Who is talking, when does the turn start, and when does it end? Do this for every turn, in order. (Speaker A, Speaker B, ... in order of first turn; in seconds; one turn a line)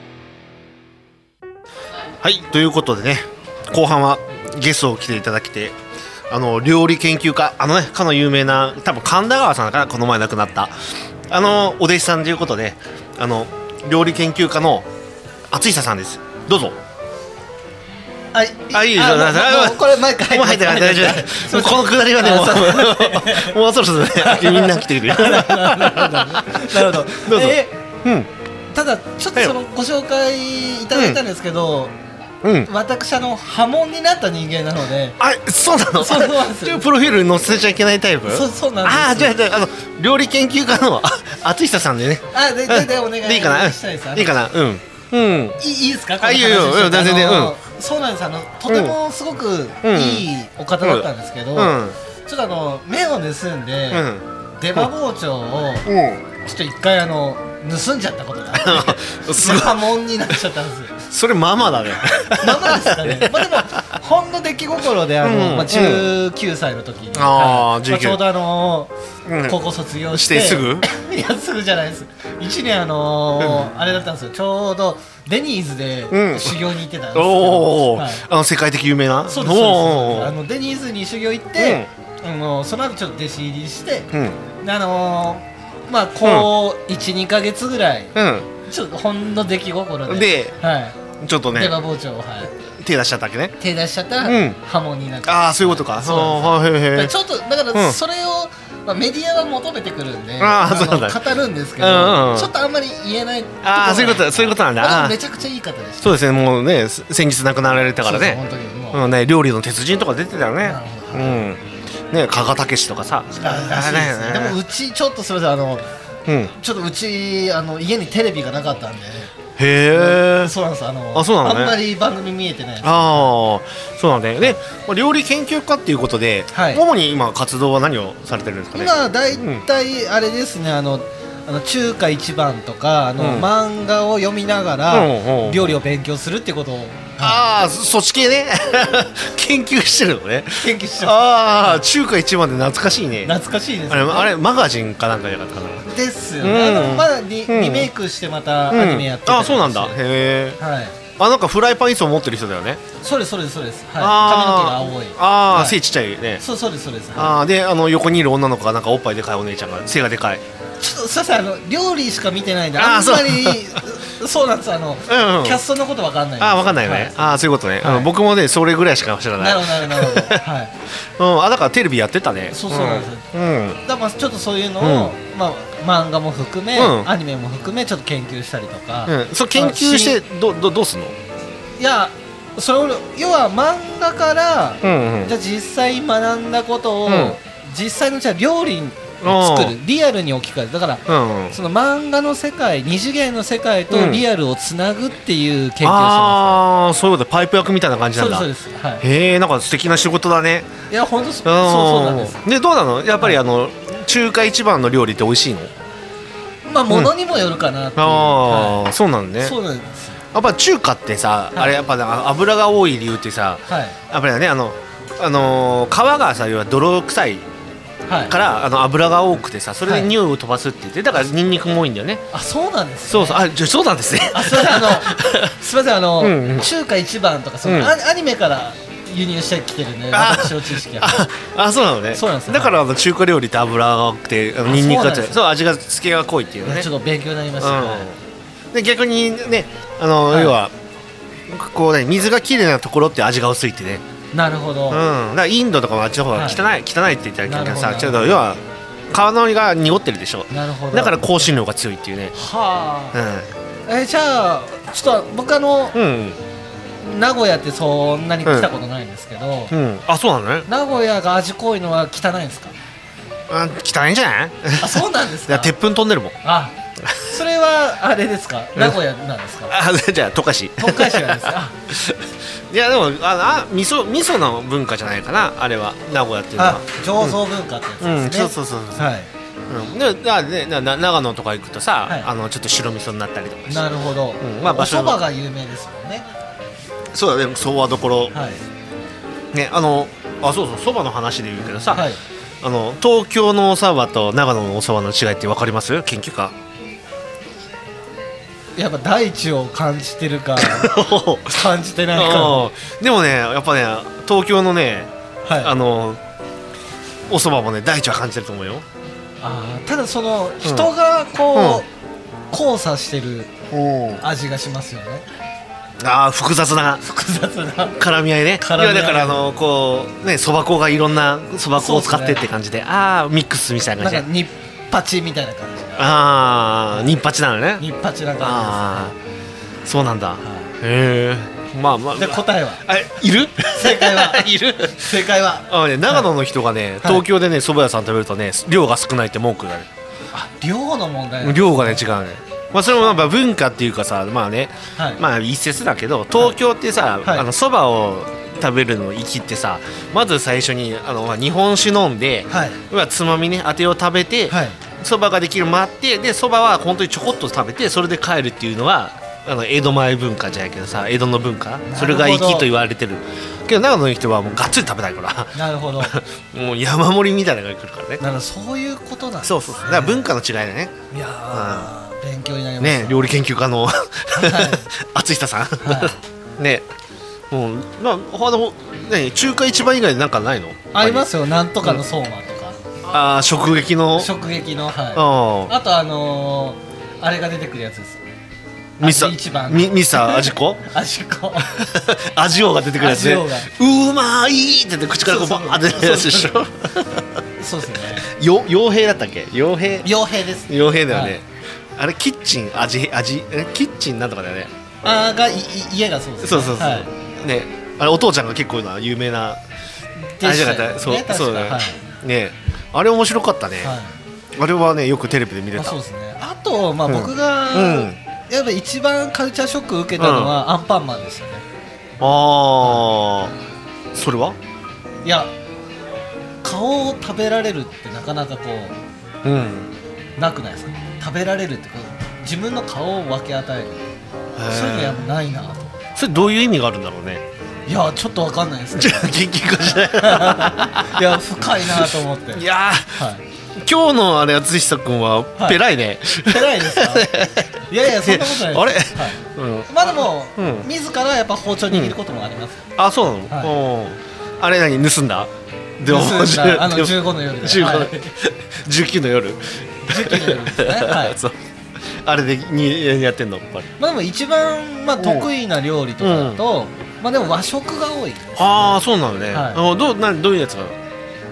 Speaker A: 2.2-5.8
Speaker A: 6.3-10.7
Speaker A: 11.3-14.9
Speaker A: 15.5-16.8
Speaker B: 18.3-23.6
Speaker A: 18.7-28.3
Speaker B: 24.1-27.8
Speaker B: 28.7-31.9
Speaker A: 30.9-31.2
Speaker A: 32.4-32.7
Speaker B: 32.7-35.2
Speaker A: 35.2-45.6
Speaker B: 36.0-36.9
Speaker B: 38.3-39.4
Speaker B: 42.3-44.4
Speaker B: 45.6-54.1
Speaker A: 46.2-47.6
Speaker A: 48.7-49.0
Speaker A: 49.8-50.3
Speaker A: 50.8-52.0
Speaker A: 53.9-54.2
Speaker B: 54.6-55.9
Speaker A: 55.9-56.2
Speaker B: 56.4-61.0
Speaker A: 58.5-59.9
Speaker A: 61.0-63.8
Speaker B: 62.3-68.9
Speaker A: 65.2-66.1
Speaker A: 67.1-68.2
Speaker A: 69.3-69.6
Speaker B: 69.5-78.2
Speaker A: 70.1-70.9
Speaker A: 73.4-73.7
Speaker A: 76.1-76.6
Speaker A: 77.1-80.4
Speaker B: 79.3-88.1
Speaker A: 81.6-81.9
Speaker A: 84.1-84.4
Speaker A: 86.2-86.5
Speaker A: 88.2-88.5
Speaker B: 88.7-91.0
Speaker A: 90.1-90.6
Speaker A: 91.2-91.8
Speaker B: 91.5-92.5
Speaker A: 92.8-93.5
Speaker B: 93.6-106.1
Speaker A: 94.2-94.6
Speaker A: 95.2-97.1
Speaker A: 97.7-98.0
Speaker A: 100.4-101.2
Speaker A: 101.8-102.5
Speaker A: 103.6-105.2
Speaker A: 106.0-114.6
Speaker B: 108.0-109.1
Speaker B: 110.6-111.4
Speaker B: 113.4-115.8
Speaker A: 116.3-116.5
Speaker B: 116.5-119.3
Speaker A: 119.6-120.5
Speaker B: 119.9-123.3
Speaker A: 121.1-121.8
Speaker A: 122.8-129.6
Speaker B: 126.5-126.8
Speaker B: 128.7-137.4
Speaker A: 133.2-133.5
Speaker A: 134.9-135.8
Speaker A: 137.2-143.4
Speaker B: 140.6-141.8
Speaker B: 143.2-144.3
Speaker A: 143.9-145.9
Speaker B: 145.9-150.0
Speaker A: 146.4-147.9
Speaker A: 148.7-150.6
Speaker B: 150.6-150.9
Speaker A: 151.2-152.8
Speaker B: 153.0-155.8
Speaker A: 154.0-156.4
Speaker B: 156.4-157.4
Speaker A: 157.2-160.4
Speaker B: 160.8-167.2
Speaker A: 162.8-163.8
Speaker A: 165.1-165.6
Speaker A: 166.4-170.4
Speaker B: 167.8-168.1
Speaker B: 169.4-170.7
Speaker A: 171.0-173.8
Speaker B: 172.5-173.2
Speaker B: 173.8-180.2
Speaker A: 174.8-175.1
Speaker A: 176.8-177.1
Speaker A: 179.1-181.2
Speaker B: 181.8-196.6
Speaker A: 184.8-185.3
Speaker A: 187.1-187.4
Speaker A: 189.2-189.8
Speaker A: 191.1-191.6
Speaker A: 193.9-194.2
Speaker A: 195.8-198.5
Speaker B: 198.2-199.1
Speaker A: 199.0-200.7
Speaker B: 200.9-202.4
Speaker A: 201.4-205.7
Speaker B: 206.7-208.8
Speaker A: 208.0-209.6
Speaker B: 209.4-210.2
Speaker A: 210.3-217.5
Speaker B: 213.7-214.0
Speaker B: 218.1-218.3
Speaker A: 218.3-222.2
Speaker B: 219.9-220.1
Speaker B: 222.3-223.4
Speaker A: 223.1-225.5
Speaker B: 224.3-231.3
Speaker A: 226.2-226.7
Speaker A: 227.6-227.9
Speaker A: 230.1-236.9
Speaker B: 232.1-232.8
Speaker B: 234.6-235.4
Speaker B: 236.7-238.1
Speaker A: 237.6-238.2
Speaker A: 238.7-240.7
Speaker B: 240.3-240.6
Speaker A: 241.5-244.0
Speaker B: 244.3-245.1
Speaker A: 244.9-252.3
Speaker B: 246.3-246.7
Speaker B: 247.5-248.4
Speaker B: 250.5-251.5
Speaker B: 252.3-253.2
Speaker A: 253.1-253.5
Speaker B: 253.9-256.0
Speaker A: 255.9-256.4
Speaker B: 257.0-259.7
Speaker A: 258.4-258.7
Speaker A: 259.7-260.7
Speaker B: 260.7-262.8
Speaker A: 263.5-266.4
Speaker B: 264.8-265.7
Speaker B: 266.4-269.8
Speaker A: 269.7-277.4
Speaker B: 270.8-271.8
Speaker B: 276.6-279.3
Speaker A: 278.0-279.1
Speaker A: 279.7-283.9
Speaker B: 283.7-286.3
Speaker A: 284.4-285.2
Speaker A: 287.1-288.3
Speaker B: 288.3-288.6
Speaker A: 289.5-292.1
Speaker B: 291.9-292.2
Speaker A: 292.6-296.6
Speaker B: 298.8-302.6
Speaker A: 300.6-301.6
Speaker A: 302.1-306.2
Speaker B: 305.4-305.7
Speaker A: 307.3-308.9
Speaker B: 309.4-311.9
Speaker A: 310.6-310.9
Speaker A: 311.6-311.8
Speaker B: 312.5-313.5
Speaker A: 313.7-314.2
Speaker B: 314.2-315.2
Speaker A: 316.0-317.0
Speaker B: 317.0-318.0
Speaker A: 318.0-324.3
Speaker B: 318.6-319.4
Speaker B: 321.8-322.4
Speaker B: 324.0-326.1
Speaker A: 326.0-327.9
Speaker B: 327.8-329.1
Speaker A: 328.4-329.1
Speaker A: 329.9-339.9
Speaker B: 330.4-330.7
Speaker B: 332.1-332.9
Speaker B: 333.7-336.3
Speaker B: 340.3-342.0
Speaker A: 341.4-368.2
Speaker B: 345.0-345.2
Speaker B: 352.5-352.8
Speaker B: 354.5-354.8
Speaker B: 361.9-362.7
Speaker B: 365.6-366.2
Speaker B: 368.2-370.3
Speaker A: 369.4-371.9
Speaker B: 371.1-373.3
Speaker A: 372.8-376.9
Speaker B: 374.3-374.9
Speaker B: 375.8-376.2
Speaker A: 377.5-381.3
Speaker B: 380.9-382.8
Speaker A: 383.1-384.3
Speaker B: 384.2-388.2
Speaker A: 385.1-385.7
Speaker A: 389.0-390.9
Speaker B: 389.0-391.8
Speaker A: 391.7-397.4
Speaker B: 393.0-393.7
Speaker B: 395.2-396.6
Speaker B: 397.6-398.3
Speaker A: 398.2-400.1
Speaker B: 400.0-401.4
Speaker A: 400.7-404.7
Speaker B: 405.0-407.1
Speaker A: 406.4-409.6
Speaker B: 410.3-412.0
Speaker A: 410.4-414.0
Speaker B: 413.8-414.1
Speaker A: 414.6-416.0
Speaker B: 415.8-421.6
Speaker A: 417.1-418.2
Speaker A: 420.2-420.6
Speaker A: 422.2-423.6
Speaker A: 424.1-424.6
Speaker B: 425.2-425.5
Speaker B: 426.6-429.0
Speaker A: 429.4-429.9
Speaker B: 430.4-434.0
Speaker A: 434.6-435.2
Speaker B: 434.7-435.9
Speaker A: 436.2-437.4
Speaker B: 437.9-439.4
Speaker A: 439.0-450.9
Speaker B: 440.0-443.4
Speaker B: 446.4-452.9
Speaker A: 451.9-452.2
Speaker A: 453.0-463.9
Speaker B: 453.5-453.8
Speaker B: 456.0-458.3
Speaker B: 460.1-461.4
Speaker B: 464.0-469.0
Speaker A: 465.2-465.5
Speaker A: 466.2-466.6
Speaker A: 468.6-471.0
Speaker B: 469.5-469.8